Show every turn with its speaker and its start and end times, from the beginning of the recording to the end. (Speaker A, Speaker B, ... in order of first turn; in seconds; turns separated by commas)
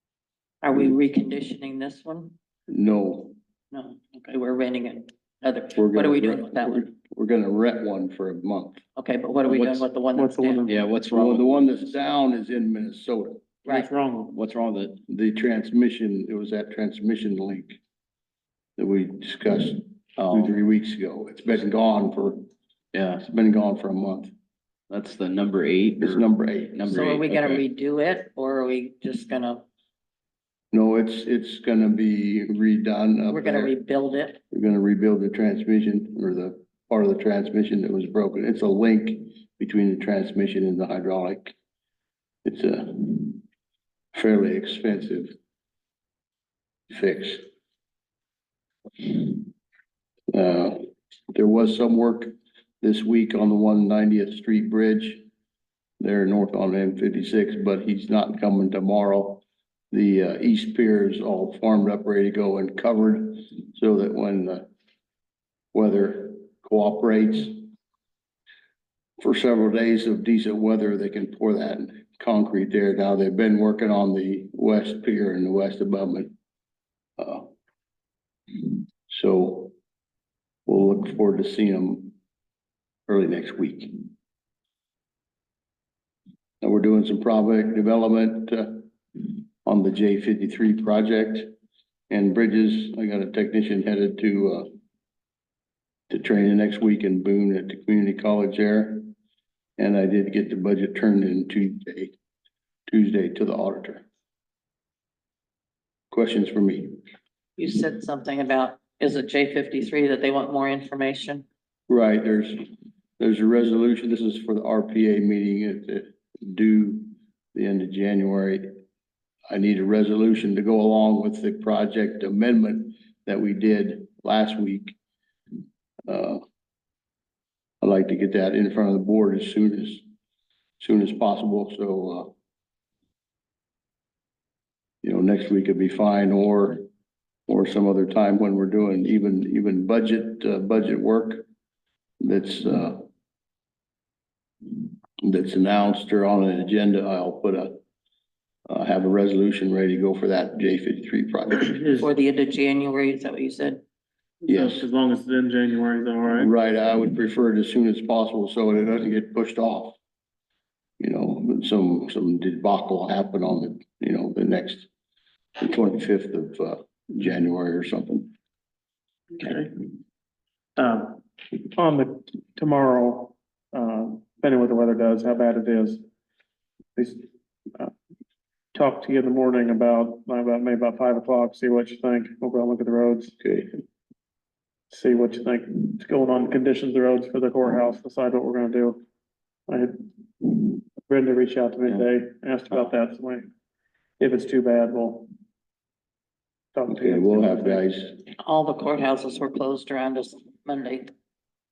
Speaker A: 0.6-2.3, Speaker B: 2.7-3.4, Speaker A: 3.7-6.9, Speaker B: 5.7-8.8, Speaker A: 9.0-10.7, Speaker C: 9.4-9.9, Speaker D: 10.1-10.8, Speaker C: 10.7-11.6, Speaker B: 11.1-13.4, Speaker D: 13.7-14.3, Speaker C: 14.3-15.0, Speaker B: 15.1-17.8, Speaker B: 18.8-22.4, Speaker C: 20.2-20.5, Speaker C: 22.9-23.2, Speaker B: 23.2-24.3, Speaker C: 24.9-27.6, Speaker B: 26.0-26.8, Speaker A: 26.9-29.6, Speaker B: 30.7-33.7, Speaker A: 33.3-34.4, Speaker B: 34.5-41.5, Speaker B: 42.4-43.4, Speaker B: 44.1-45.3, Speaker B: 46.9-47.4, Speaker B: 49.0-49.5, Speaker B: 50.3-55.2, Speaker B: 56.0-64.7, Speaker B: 65.7-67.7, Speaker B: 69.2-76.3, Speaker B: 77.2-77.5, Speaker B: 78.6-79.7, Speaker B: 80.7-82.1, Speaker B: 83.1-84.1, Speaker B: 86.6-91.5, Speaker B: 92.1-94.7, Speaker B: 96.1-99.1, Speaker B: 99.8-102.1, Speaker B: 102.9-104.0, Speaker B: 106.1-106.9, Speaker A: 107.6-111.4, Speaker B: 111.9-112.6, Speaker B: 113.2-118.7, Speaker B: 119.5-125.0, Speaker B: 126.1-126.4, Speaker B: 127.8-130.0, Speaker B: 130.8-132.3, Speaker B: 135.0-136.8, Speaker B: 137.5-141.4, Speaker B: 142.2-143.0, Speaker B: 145.2-147.7, Speaker B: 148.7-151.8, Speaker D: 151.7-152.1, Speaker A: 152.0-153.8, Speaker D: 154.4-156.5, Speaker B: 154.4-154.8, Speaker B: 156.4-159.9, Speaker B: 161.0-164.9, Speaker B: 165.6-168.3, Speaker D: 169.4-169.7, Speaker D: 170.8-176.0, Speaker D: 176.9-177.9, Speaker D: 178.7-183.3, Speaker B: 183.4-183.7, Speaker D: 184.9-189.0, Speaker D: 189.7-193.5, Speaker D: 194.2-195.3, Speaker D: 196.7-197.8, Speaker B: 196.9-198.2, Speaker A: 198.4-201.1